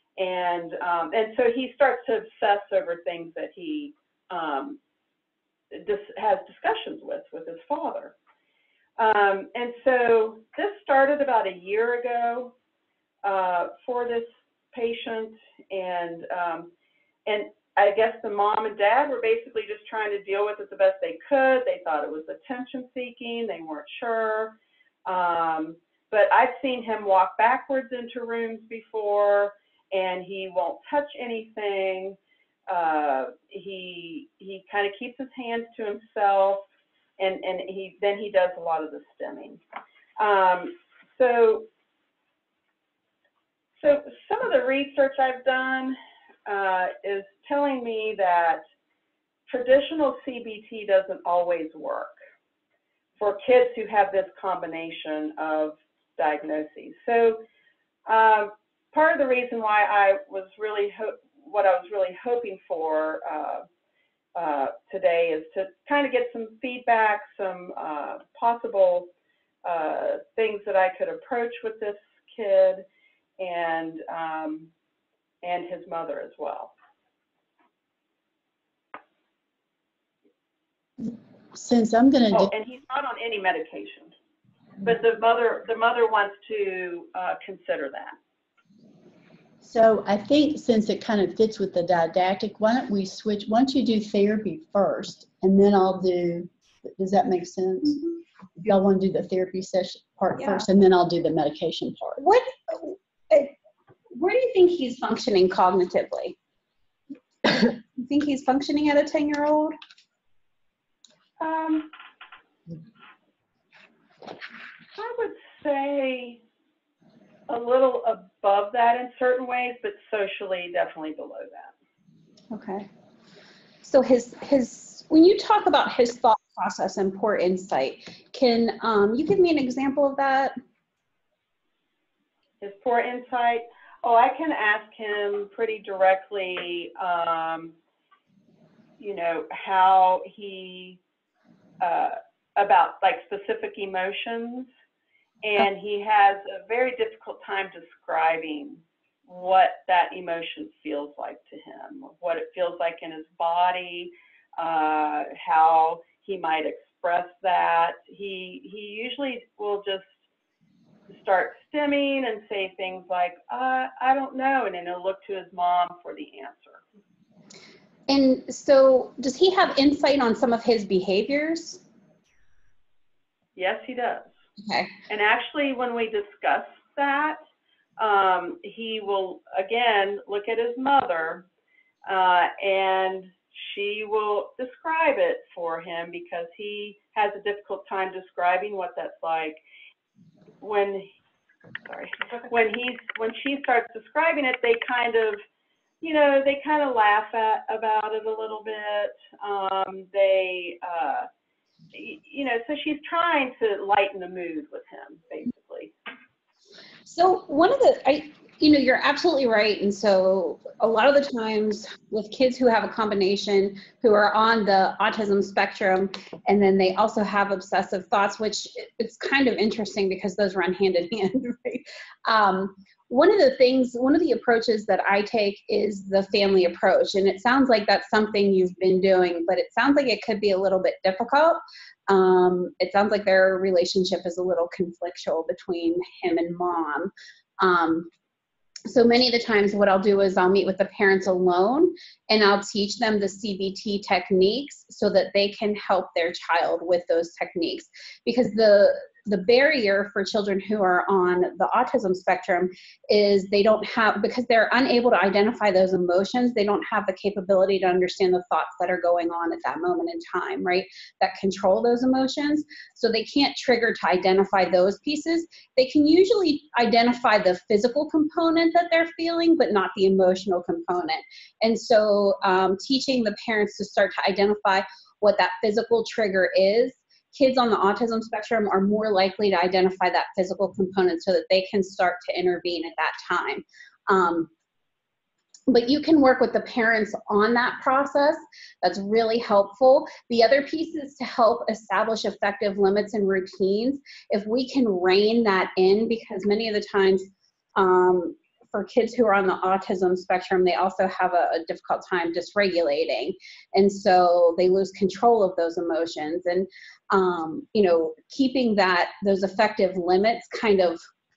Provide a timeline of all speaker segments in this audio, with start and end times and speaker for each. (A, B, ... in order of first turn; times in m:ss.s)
0:00.2-0:04.8 A
0:05.7-0:08.2 A
0:09.0-0:12.5 A
0:13.2-0:16.7 A
0:17.3-0:36.6 A
0:37.2-0:39.6 A
0:40.2-0:41.7 A
0:43.8-0:48.6 A
0:49.5-0:52.1 A
0:53.2-0:57.4 A
0:58.1-1:03.6 A
1:04.4-1:09.1 A
1:09.6-1:12.8 A
1:13.4-1:14.7 A
1:15.4-1:16.7 A
1:21.5-1:22.5 B
1:22.3-1:24.1 A
1:24.8-1:28.2 A
1:29.6-1:38.0 B
1:38.6-1:42.2 B
1:42.2-1:43.5 C
1:44.1-1:46.4 C
1:47.5-1:49.8 C
1:51.4-1:51.9 A
1:55.0-1:56.4 A
1:57.5-2:01.7 A
2:02.5-2:02.9 C
2:03.8-2:10.5 C
2:12.6-2:17.8 A
2:19.0-2:21.0 A
2:21.8-2:24.7 A
2:25.4-2:40.2 A
2:41.1-2:46.8 A
2:48.1-2:51.8 C
2:53.6-2:54.3 A
2:54.6-2:54.9 C
2:55.1-2:57.4 A
2:58.0-3:01.5 A
3:02.1-3:09.6 A
3:10.6-3:11.1 A
3:11.8-3:15.4 A
3:16.0-3:21.3 A
3:21.9-3:25.9 A
3:27.1-3:58.1 C
3:58.9-4:44.5 C
4:45.7-5:11.0 C